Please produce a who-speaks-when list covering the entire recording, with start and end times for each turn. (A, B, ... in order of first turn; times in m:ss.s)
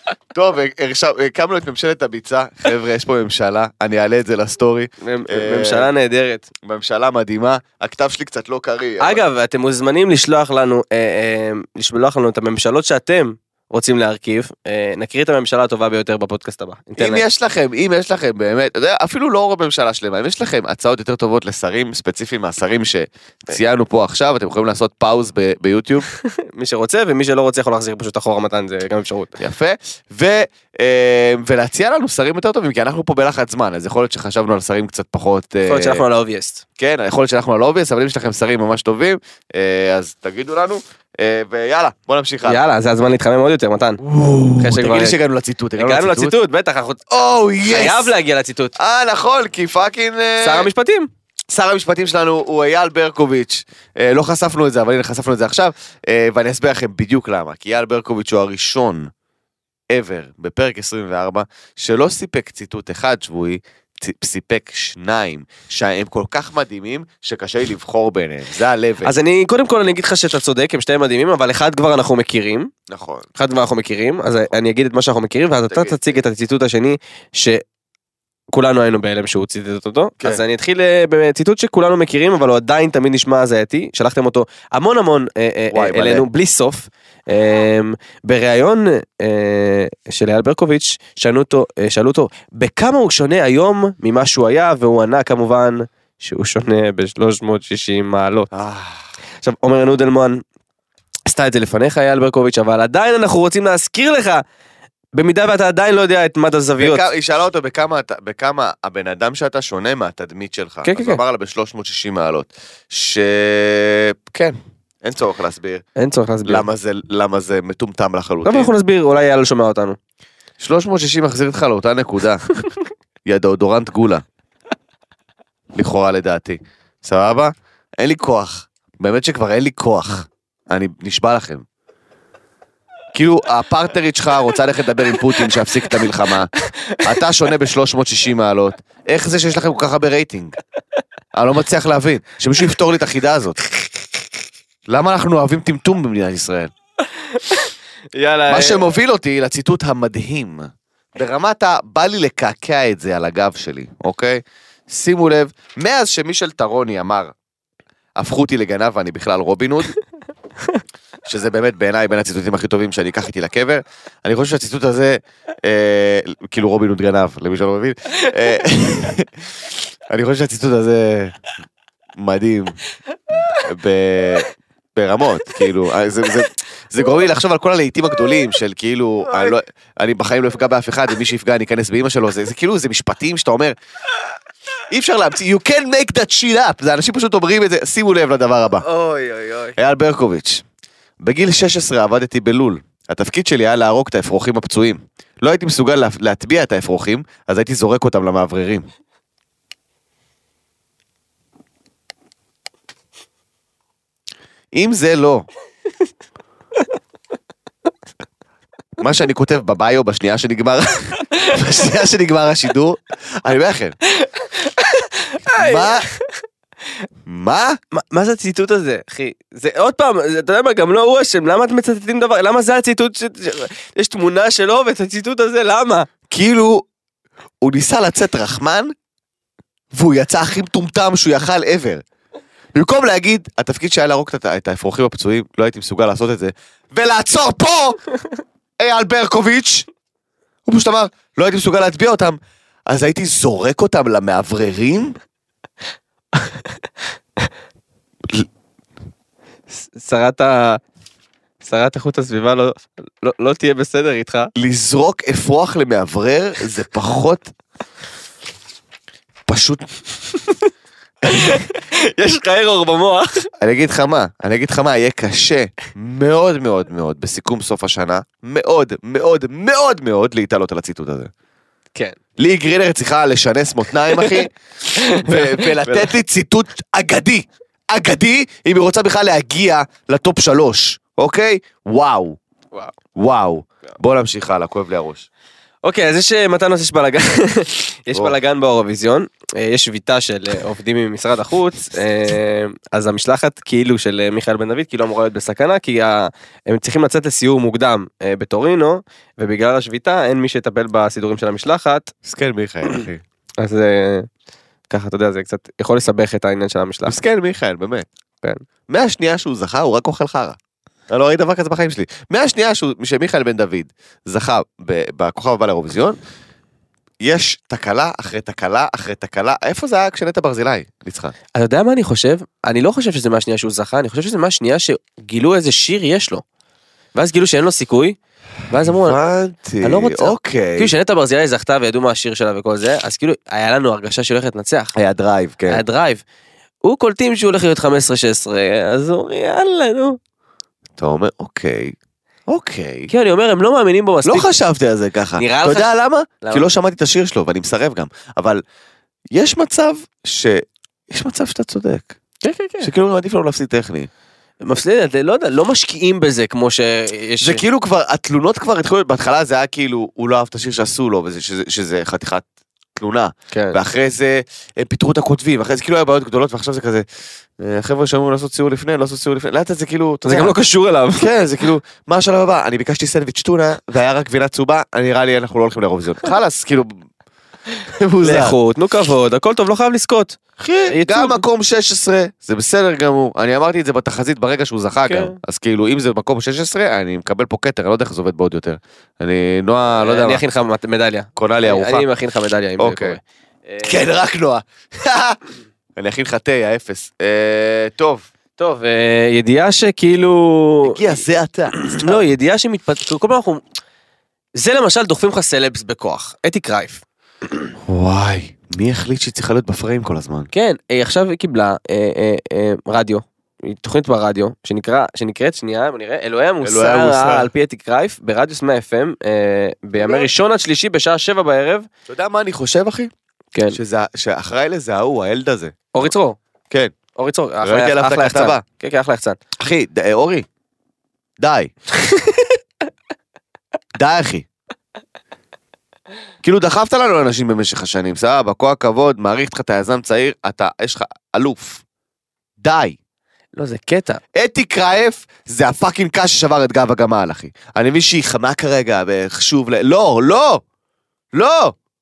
0:00.3-0:05.9 A
0:05.0-0:06.5 B
0:06.6-0:09.2 A
0:09.0-0:17.2 B
0:17.0-0:26.1 A
0:26.2-0:29.3 B
0:29.4-0:36.0 A
0:35.6-0:36.6 B
0:36.8-0:42.6 A
0:42.4-0:44.0 B
0:44.0-0:46.4 A
0:44.6-0:45.2 B
0:45.8-0:47.0 B
0:47.1-0:48.1 A
0:47.6-0:48.7 B
0:48.8-0:50.7 A
0:50.4-0:51.1 B
0:51.5-0:59.1 A
0:59.9-1:09.1 A
1:09.0-1:12.7 B
1:12.9-1:13.2 A
1:13.4-1:17.6 B
1:15.7-1:16.2 A
1:18.5-1:38.5 B
1:25.7-1:26.3 A
1:38.5-1:39.0 A
1:39.4-1:40.4 B
1:41.3-1:44.4 B
1:45.1-1:47.0 B
1:46.8-1:55.8 A
1:50.8-1:51.2 B
1:56.0-1:56.6 B
1:56.4-1:58.7 A
1:58.4-2:00.0 B
2:00.6-2:02.4 A
2:03.2-2:04.2 A
2:05.7-2:11.6 A
2:13.1-2:20.6 A
2:21.3-2:23.6 A
2:24.9-2:26.7 A
2:27.3-2:28.9 B
2:28.5-2:37.3 A
2:38.2-2:39.9 A
2:41.2-2:51.4 A
2:52.2-2:52.8 A
2:53.5-3:03.7 A
2:59.3-2:59.5 B
3:04.9-3:08.8 A
3:08.8-3:09.8 B
3:09.8-3:10.6 A
3:11.2-3:18.8 A
3:24.7-3:25.5 A
3:29.0-3:34.0 A
3:34.2-3:36.3 B
3:35.6-3:36.1 A
3:37.2-3:37.8 A
3:37.9-3:46.1 B
3:46.3-3:46.8 A
3:47.6-3:48.9 A
3:49.9-3:52.0 A
3:52.7-3:58.0 A
3:58.8-3:59.9 A
4:00.6-4:05.2 A
4:09.7-4:10.8 B
4:11.6-4:14.5 B
4:14.6-4:17.5 A
4:19.5-4:19.9 A
4:21.2-4:23.5 B
4:23.6-4:31.3 A
4:32.4-4:34.5 A
4:34.1-4:34.4 B
4:35.0-4:36.1 B
4:35.2-4:42.4 A
4:43.2-4:45.2 A
4:45.8-5:02.1 B
5:02.2-5:03.2 A
5:03.6-5:04.3 B
5:04.9-5:07.2 B
5:07.0-5:08.0 A
5:08.9-5:10.6 A
5:11.1-5:16.2 A
5:17.2-5:21.3 A
5:21.5-5:26.4 B
5:27.1-5:28.2 B
5:28.7-5:29.2 B
5:28.9-5:30.9 A
5:29.8-5:34.9 B
5:34.9-5:35.8 A
5:35.7-5:36.2 B
5:36.8-5:40.2 B
5:41.0-5:42.0 A
5:42.5-5:43.1 A
5:43.1-5:44.5 B
5:44.2-5:48.6 A
5:45.4-5:46.7 B
5:49.3-5:52.1 A
5:52.4-5:52.9 B
5:52.8-5:54.1 A
5:54.6-5:57.6 B
5:57.4-6:02.4 A
6:03.0-6:07.0 A
6:03.5-6:03.8 B
6:07.6-6:10.6 A
6:10.2-6:11.3 B
6:11.2-6:17.0 A
6:17.9-6:18.6 A
6:18.2-6:21.4 B
6:20.6-6:30.4 A
6:25.0-6:25.4 B
6:30.0-6:34.0 B
6:31.4-6:32.0 A
6:32.8-6:33.2 A
6:33.8-6:35.4 A
6:36.0-6:38.3 A
6:38.6-6:41.1 B
6:40.8-6:42.2 A
6:41.8-6:43.6 B
6:44.6-6:47.0 B
6:47.8-6:50.5 A
6:50.5-7:01.9 B
6:56.6-6:57.5 A
7:00.0-7:00.3 A
7:02.1-7:03.1 A
7:03.5-7:03.8 B
7:03.7-7:05.9 A
7:05.9-7:06.4 B
7:07.2-7:09.4 B
7:07.6-7:08.6 A
7:09.6-7:10.4 A
7:11.4-7:11.7 A
7:12.0-7:12.3 B
7:14.0-7:14.5 A
7:16.4-7:21.8 A
7:22.6-7:23.0 A
7:23.5-7:24.2 B
7:24.3-7:30.6 A
7:31.3-7:31.8 A